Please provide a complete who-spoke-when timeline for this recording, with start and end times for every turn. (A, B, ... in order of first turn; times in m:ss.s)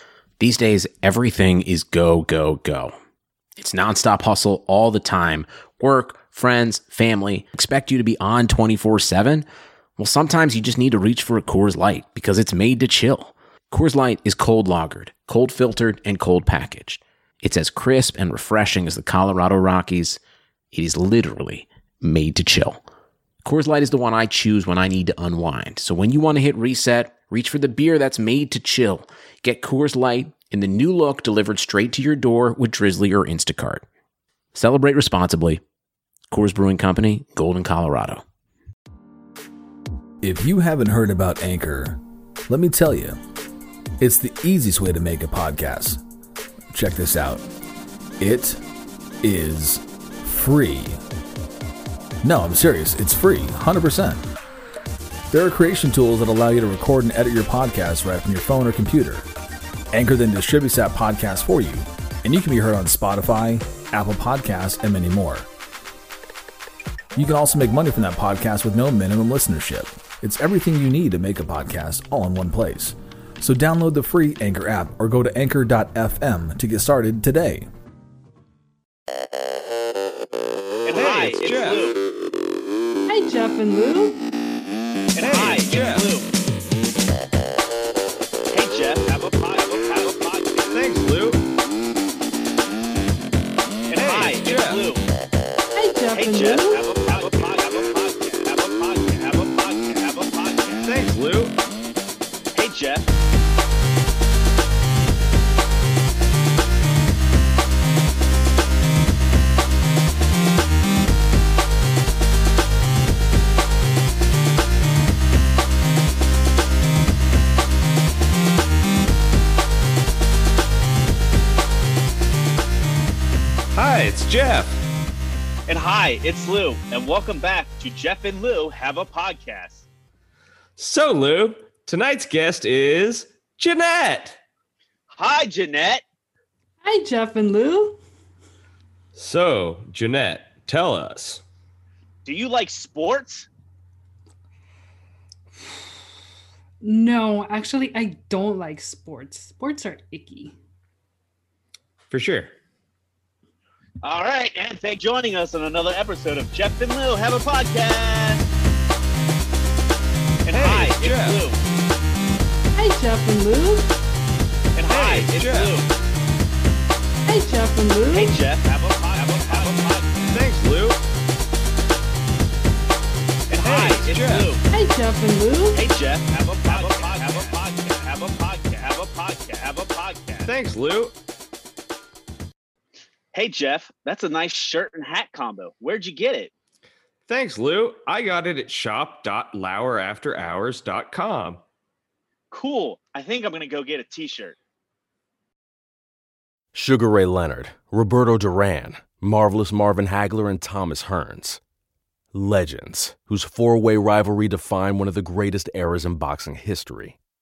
0:00.4-0:02.9 A
0:03.6-0:09.4 A
0:10.0-0:20.2 A
0:20.7-0:22.8 A
0:23.4-0:33.8 A
0:34.5-0:35.6 A
0:36.3-0:38.2 A
0:40.2-0:43.2 B
0:44.0-0:46.0 B
0:46.7-0:47.4 B
0:48.2-0:48.6 B
0:49.2-0:51.0 B
0:52.2-0:54.2 B
0:55.3-0:59.3 B
0:59.9-1:05.5 B
1:07.2-1:17.7 B
1:20.8-1:22.0 C
1:21.0-1:21.8 D
1:23.0-1:24.2 E
1:25.1-1:26.3 C
1:25.2-1:26.1 D
1:28.5-1:30.8 C
1:30.7-1:31.4 D
1:33.9-1:35.0 C
1:34.0-1:34.8 D
1:35.7-1:36.8 E
1:36.1-1:40.9 C
1:40.8-1:41.6 D
1:42.5-1:43.1 C
2:03.7-2:04.8 D
2:05.7-2:09.8 C
2:10.8-2:14.4 D
2:15.1-2:16.0 C
2:16.8-2:18.0 E
2:19.1-2:21.4 D
2:22.2-2:23.5 C
2:26.8-2:30.5 E
2:32.1-2:32.5 D
2:34.0-2:38.4 C
2:40.4-2:41.6 C
2:40.5-2:41.4 D
2:42.7-2:43.9 E
2:44.7-2:45.9 C
2:44.9-2:45.8 D
2:47.2-2:48.4 E
2:48.1-2:50.4 C
2:50.3-2:51.0 D
2:53.5-2:54.6 C
2:53.6-2:54.5 D
2:54.7-2:55.8 E
2:55.7-3:00.5 C
2:57.2-2:57.5 D
3:00.4-3:01.1 D
3:03.3-3:06.5 C
3:07.3-3:11.6 D
3:12.5-3:14.6 C
3:16.7-3:21.6 F
3:22.3-3:27.2 F